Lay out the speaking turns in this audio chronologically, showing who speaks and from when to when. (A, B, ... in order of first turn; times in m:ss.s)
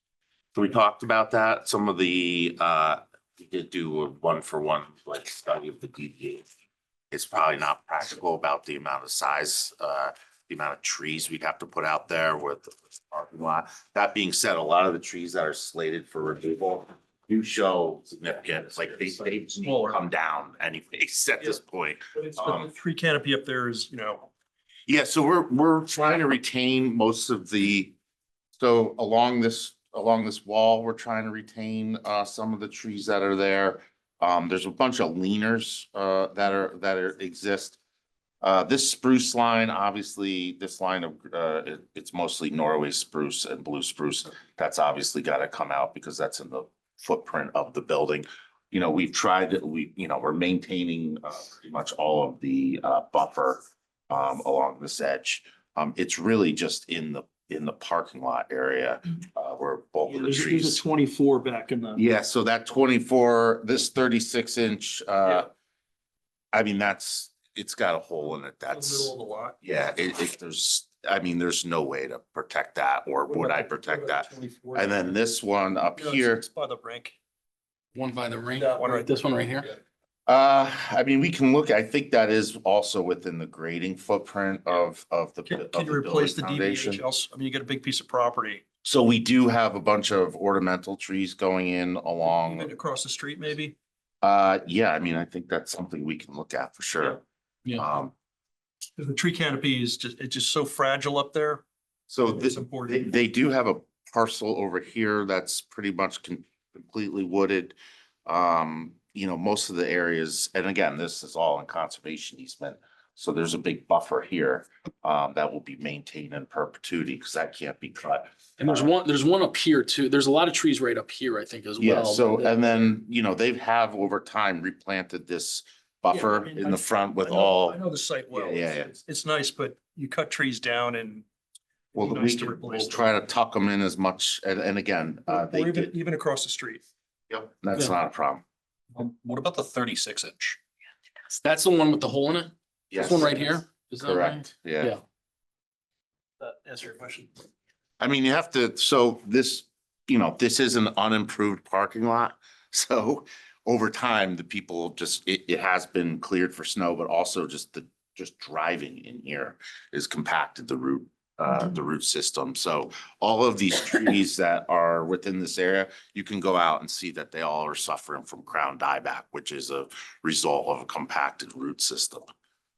0:00.6-0:06.5 A
0:07.1-0:22.7 A
0:19.6-0:20.0 B
0:22.1-0:24.3 B
0:24.9-0:27.9 A
0:28.6-0:37.8 A
0:38.4-1:00.8 A
1:00.1-1:02.1 B
1:02.0-1:05.5 A
1:06.5-1:16.5 A
1:08.7-1:09.6 B
1:13.3-1:15.4 B
1:16.0-1:17.2 B
1:18.0-1:19.7 C
1:18.6-1:19.8 B
1:20.3-1:27.0 A
1:25.5-1:28.6 B
1:28.8-1:32.7 A
1:32.3-1:33.8 B
1:34.2-1:37.2 A
1:37.8-1:38.1 A
1:39.0-1:41.6 B
1:42.1-1:58.9 A
1:42.3-1:43.1 B
1:58.6-2:02.6 C
2:01.8-2:07.8 A
2:06.1-2:11.2 B
2:08.3-2:08.9 A
2:11.9-2:13.1 B
2:12.0-2:16.0 A
2:15.3-2:16.8 B
2:17.3-2:18.4 A
2:19.0-2:20.6 C
2:21.3-2:25.0 C
2:22.9-2:25.0 A
2:26.4-2:27.3 B
2:28.0-2:52.3 A